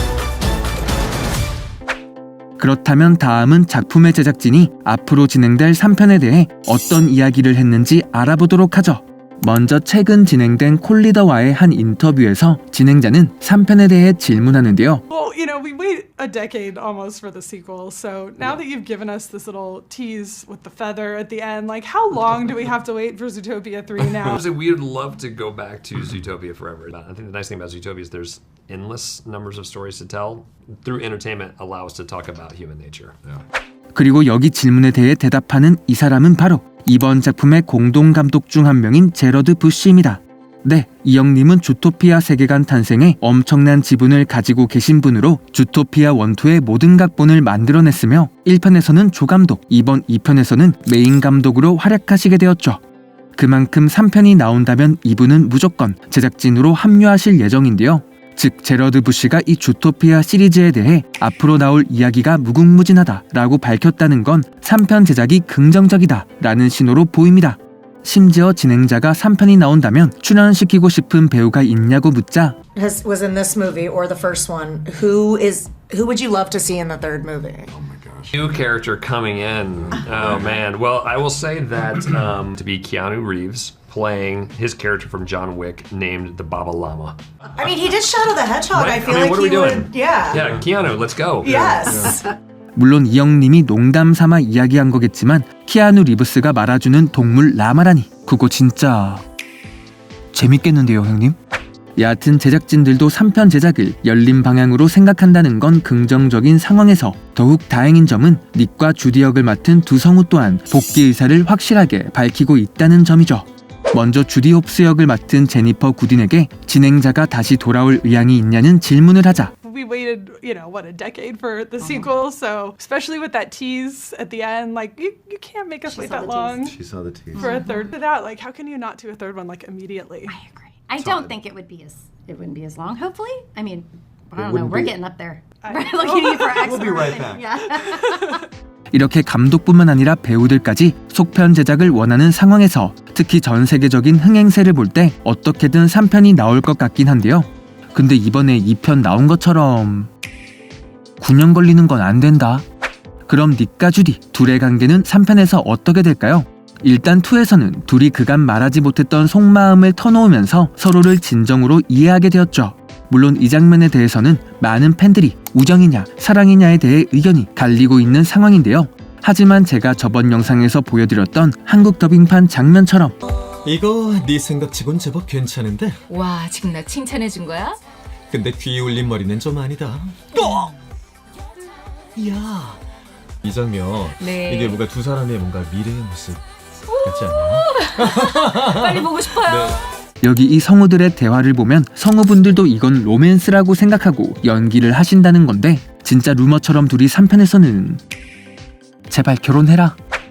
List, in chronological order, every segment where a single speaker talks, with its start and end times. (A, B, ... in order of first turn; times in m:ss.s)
0:02.6-0:15.0 A
0:15.1-0:24.4 B
0:24.3-0:33.3 C
0:33.9-0:52.8 A
0:53.4-1:12.6 A
1:12.7-1:17.7 D
1:17.7-1:18.4 E
1:18.3-1:27.7 C
1:19.8-1:20.6 E
1:27.6-1:30.5 D
1:28.7-1:31.7 C
1:30.3-1:31.0 E
1:31.4-1:32.3 D
1:31.6-1:32.1 E
1:32.8-1:39.2 A
1:40.3-1:41.4 A
1:42.0-1:59.5 A
1:59.6-2:06.8 B
2:01.8-2:02.1 F
2:05.8-2:06.7 F
2:06.6-2:07.4 E
2:07.4-2:07.9 F
2:07.4-2:10.3 B
2:10.3-2:18.4 F
2:11.0-2:11.4 E
2:14.4-2:14.9 E
2:15.6-2:16.6 B
2:16.6-2:17.4 E
2:17.5-2:18.4 B
2:18.9-2:30.1 A
2:31.2-2:32.6 A
2:33.2-2:53.2 A
2:53.6-2:56.0 G
2:56.1-2:57.8 H
2:58.3-3:00.8 G
3:02.1-3:02.8 G
3:03.4-3:06.4 G
3:04.2-3:04.8 H
3:06.8-3:09.8 H
3:07.0-3:09.8 G
3:10.2-3:18.0 A
3:19.1-3:20.0 A